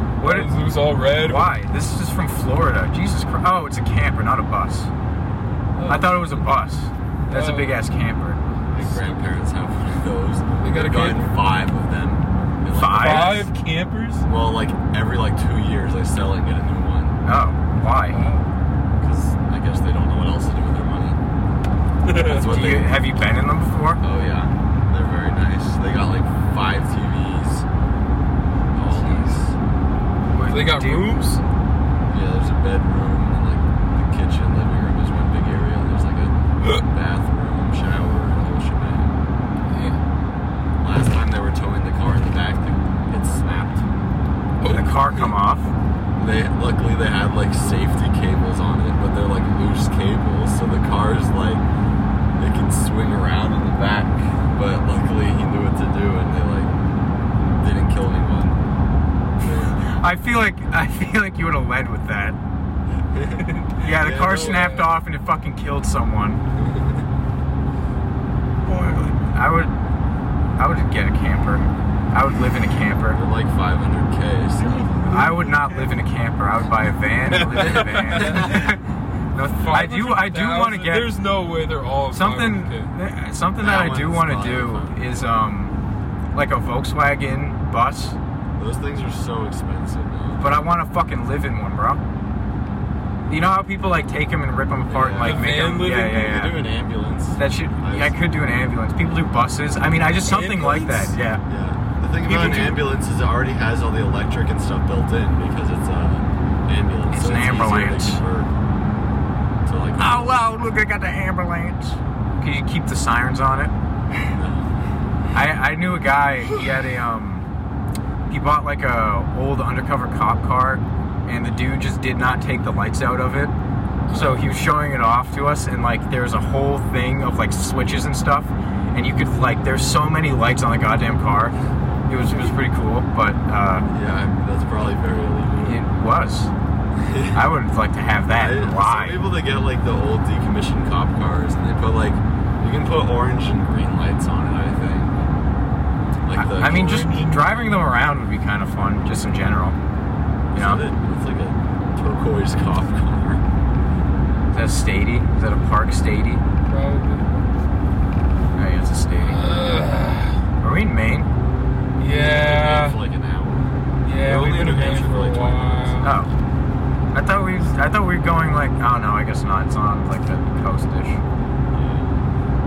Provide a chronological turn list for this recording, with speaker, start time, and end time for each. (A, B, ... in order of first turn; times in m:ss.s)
0:00.2-0:01.5 A
0:00.2-0:00.5 B
0:01.2-0:04.9 B
0:05.8-0:06.5 A
0:05.9-0:08.4 B
0:07.3-0:07.8 A
0:08.5-0:09.4 A
0:08.7-0:13.4 C
0:10.6-0:11.3 A
0:12.7-0:13.5 B
0:12.9-0:14.3 A
0:14.3-0:17.2 C
0:17.2-0:18.2 B
0:18.1-0:18.5 A
0:19.0-0:21.2 C
0:22.0-0:22.6 A
0:22.2-0:23.0 C
0:22.4-0:24.0 B
0:24.0-0:27.6 C
0:28.7-0:29.5 C
0:28.9-0:29.4 A
0:30.3-0:31.1 B
0:30.5-0:31.4 A
0:32.1-0:39.1 C
0:39.7-0:40.0 A
0:40.8-0:43.9 C
0:44.6-0:45.3 A
0:44.7-0:45.7 B
0:46.2-0:51.6 C
0:52.4-0:56.7 C
0:57.5-0:58.6 C
0:59.4-1:00.0 C
0:59.9-1:02.4 B
1:03.0-1:04.6 C
1:03.4-1:04.9 A
1:03.8-1:06.4 B
1:08.7-1:09.2 A
1:09.3-1:09.7 B
1:10.6-1:13.2 B
1:13.2-1:15.0 C
1:14.6-1:15.9 A
1:15.1-1:18.8 B
1:17.3-1:18.8 A
1:17.6-1:18.7 C
1:19.3-1:21.2 B
1:19.7-1:22.9 A
1:22.1-1:25.8 B
1:23.6-1:25.2 C
1:26.3-1:28.2 B
1:28.6-1:30.6 C
1:30.4-1:32.0 B
1:33.3-1:36.6 B
1:34.9-1:38.2 C
1:35.2-1:36.4 A
1:37.4-1:41.4 B
1:40.2-1:41.2 A
1:41.4-1:48.5 C
1:42.2-1:42.8 B
1:47.1-1:48.2 B
1:49.6-1:50.4 C
1:50.0-1:53.7 B
1:54.3-1:54.7 C
1:55.3-1:57.5 B
1:58.3-2:03.5 B
2:04.1-2:04.5 A
2:04.1-2:11.5 B
2:12.1-2:13.9 B
2:13.9-2:15.8 C
2:15.6-2:16.5 B
2:17.0-2:17.4 C
2:17.3-2:19.2 B
2:18.4-2:25.1 C
2:26.2-2:27.0 C
2:26.4-2:29.8 B
2:26.6-2:27.9 A
2:30.5-2:33.4 C
2:30.6-2:30.8 B
2:34.5-2:36.4 B
2:36.6-2:37.3 A
2:38.6-2:39.4 B
2:39.2-2:40.4 A
2:40.6-2:41.3 B
2:42.0-2:43.0 A
2:42.2-2:46.1 C
2:44.0-2:46.2 A
2:46.0-2:46.3 B
2:47.1-2:51.2 B
2:51.7-2:52.2 C